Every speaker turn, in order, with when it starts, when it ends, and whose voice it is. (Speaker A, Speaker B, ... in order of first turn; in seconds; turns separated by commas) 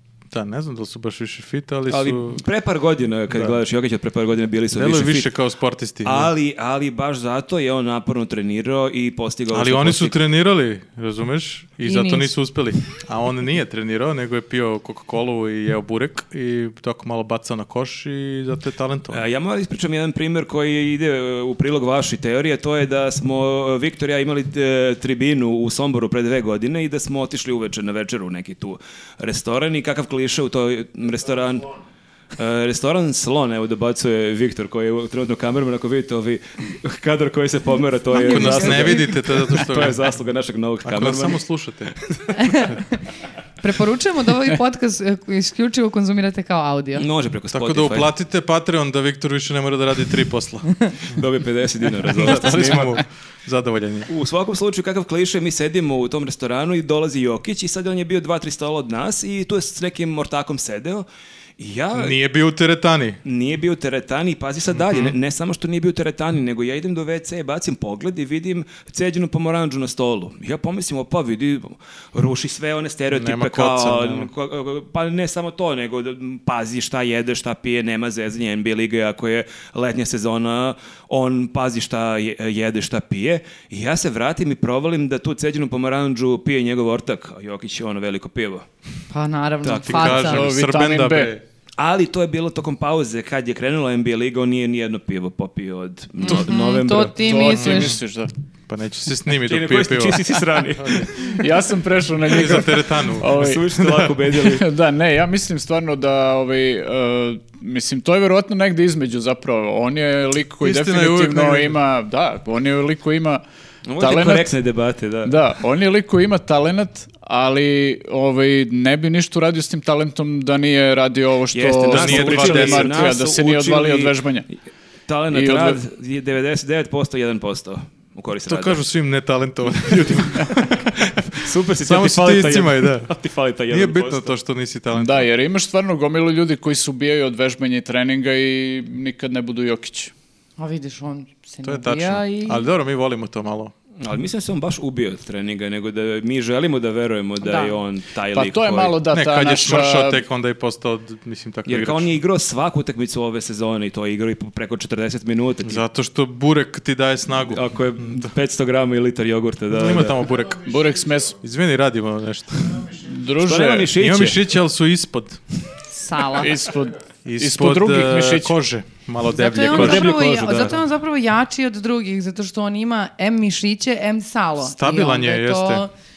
Speaker A: 0.3-2.4, Speaker B: 1.9-5.3, Speaker A: 3.3-3.6, Speaker A: 4.7-6.3, Speaker B: 6.0-10.2, Speaker A: 9.5-19.2, Speaker C: 11.8-12.3, Speaker B: 19.1-31.7, Speaker B: 32.3-41.4, Speaker C: 38.1-39.4, Speaker A: 38.1-40.1, Speaker A: 40.8-42.0, Speaker C: 42.3-43.0, Speaker C: 43.6-47.0, Speaker B: 47.0-48.1, Speaker A: 47.5-51.0, Speaker B: 51.1-53.0, Speaker A: 52.0-54.1, Speaker B: 54.1-61.0, Speaker B: 61.6-62.2, Speaker A: 61.9-63.2, Speaker B: 63.2-88.7, Speaker A: 64.7-65.2, Speaker A: 73.1-74.3, Speaker C: 89.1-90.5, Speaker B: 89.6-90.2, Speaker A: 89.8-91.4, Speaker D: 90.2-91.3, Speaker B: 91.8-97.2, Speaker C: 96.2-98.0, Speaker D: 97.2-98.3, Speaker A: 97.5-98.0, Speaker A: 98.7-101.2, Speaker B: 99.4-101.4, Speaker D: 101.3-103.6, Speaker A: 102.2-104.1, Speaker B: 103.2-104.7, Speaker D: 104.4-113.4, Speaker A: 110.6-111.8, Speaker B: 113.8-115.4, Speaker D: 114.0-114.5, Speaker D: 115.2-124.5, Speaker B: 121.5-124.2, Speaker A: 121.9-123.2, Speaker B: 125.1-128.8, Speaker D: 125.3-125.8, Speaker A: 128.5-133.1, Speaker B: 129.8-130.5, Speaker B: 131.0-134.3, Speaker A: 133.7-135.3, Speaker D: 134.9-140.1, Speaker C: 140.6-142.6, Speaker A: 141.6-143.7, Speaker B: 144.0-149.0, Speaker C: 147.4-147.8, Speaker D: 148.3-150.2, Speaker A: 149.1-152.1, Speaker B: 151.7-155.8, Speaker A: 155.6-158.3, Speaker B: 157.4-160.2, Speaker A: 159.7-160.7, Speaker D: 160.6-161.4, Speaker A: 161.4-162.9, Speaker D: 162.9-163.9, Speaker B: 163.4-164.4, Speaker A: 163.9-165.4, Speaker C: 165.9-166.5, Speaker D: 166.3-168.5, Speaker A: 167.2-170.4, Speaker C: 169.3-175.9, Speaker B: 169.6-170.8, Speaker A: 174.6-175.8